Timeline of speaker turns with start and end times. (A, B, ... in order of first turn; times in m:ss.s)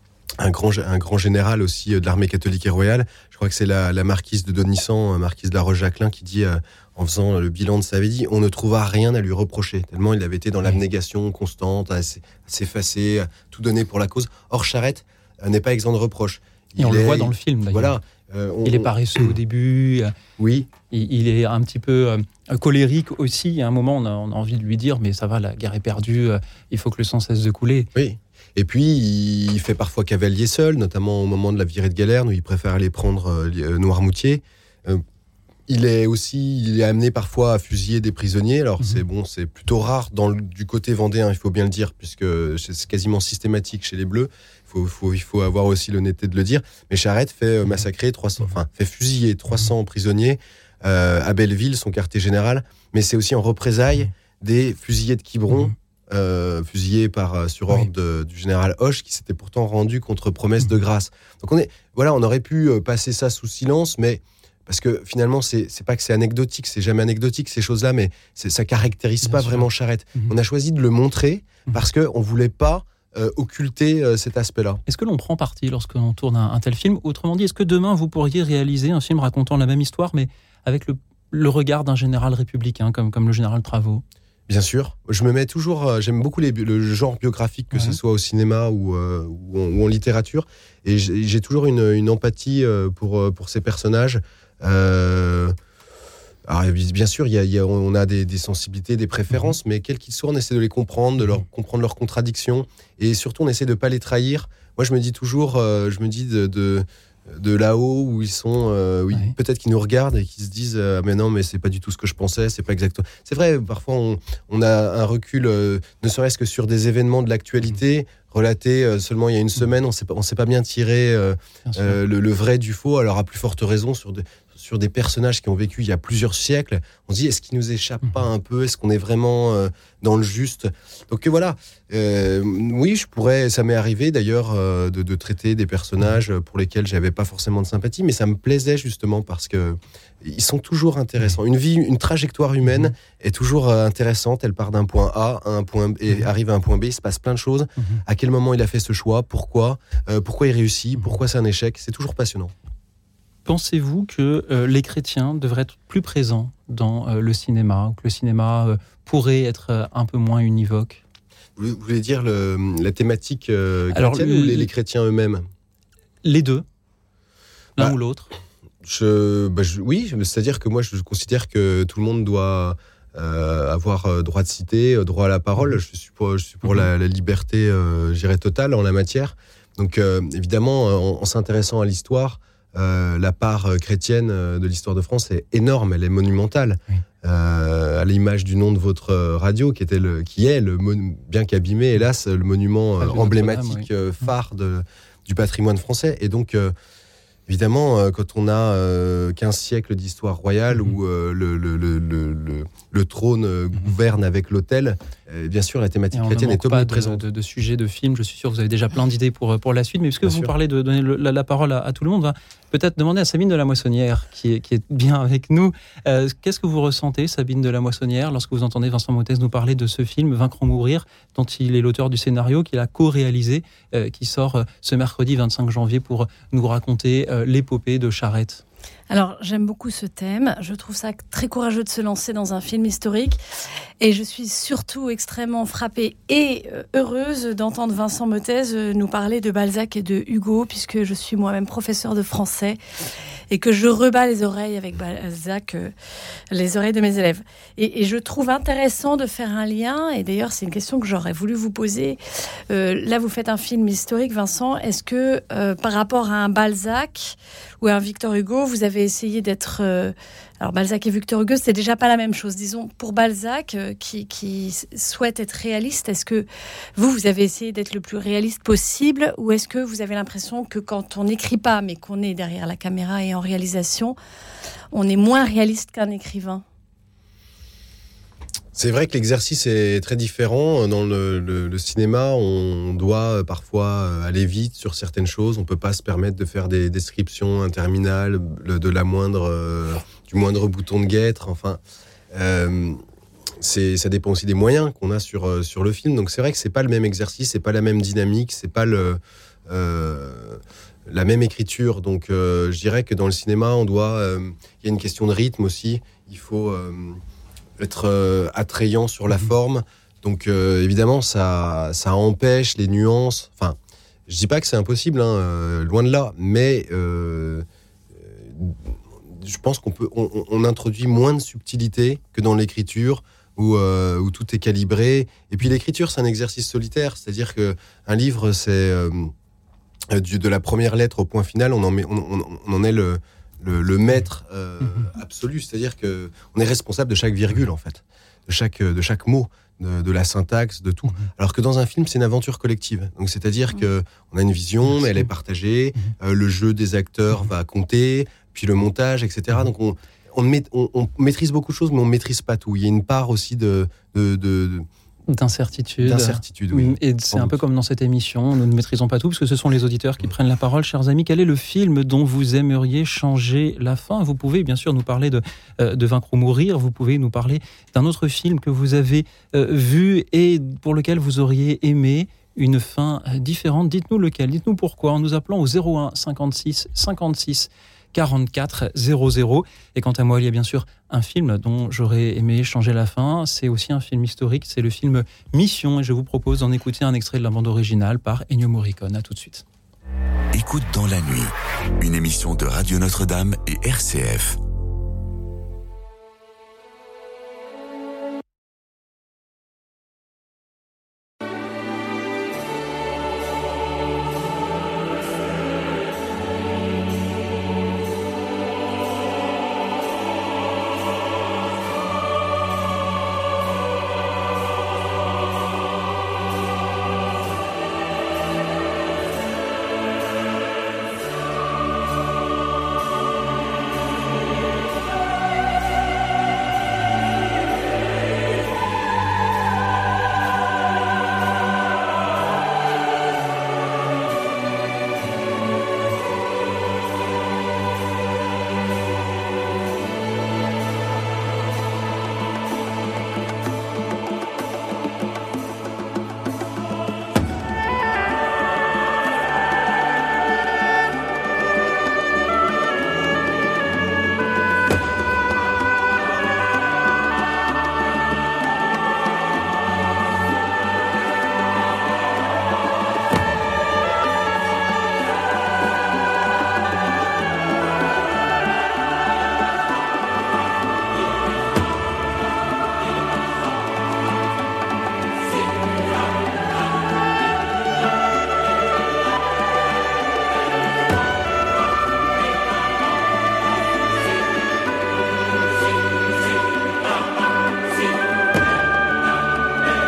0:00.4-0:19.3 A
0:16.8-0:17.9 B
0:18.6-0:20.1 B
0:20.4-0:20.7 A
0:20.9-0:27.9 B
0:27.9-0:35.0 A
0:35.7-1:14.8 A
1:09.2-1:10.3 B
1:14.8-1:24.0 B
1:24.5-1:35.6 A
1:27.7-1:28.0 B
1:36.5-2:32.5 A
1:39.3-1:39.5 B
2:01.6-2:02.0 B
2:33.4-2:41.0 B
2:41.6-2:45.5 A
2:43.9-2:44.7 B
2:46.2-2:46.6 B
2:47.8-2:48.3 B
2:48.8-3:16.7 A
3:13.0-3:13.9 B
3:17.5-3:27.2 A
3:26.1-3:48.6 B
3:30.2-3:30.5 A
3:49.1-3:53.4 C
3:54.0-4:02.8 C
4:03.5-4:05.9 C
4:06.5-4:34.2 C
4:34.9-4:36.6 C
4:38.7-4:51.8 A
4:52.3-4:53.0 A
4:53.6-5:07.2 A
5:07.8-5:17.6 A
5:18.2-5:29.3 A
5:30.1-5:54.9 A
5:34.8-5:35.1 B
5:44.9-5:45.3 B
5:55.3-6:29.6 B
5:56.0-5:57.6 A
6:30.5-6:34.6 D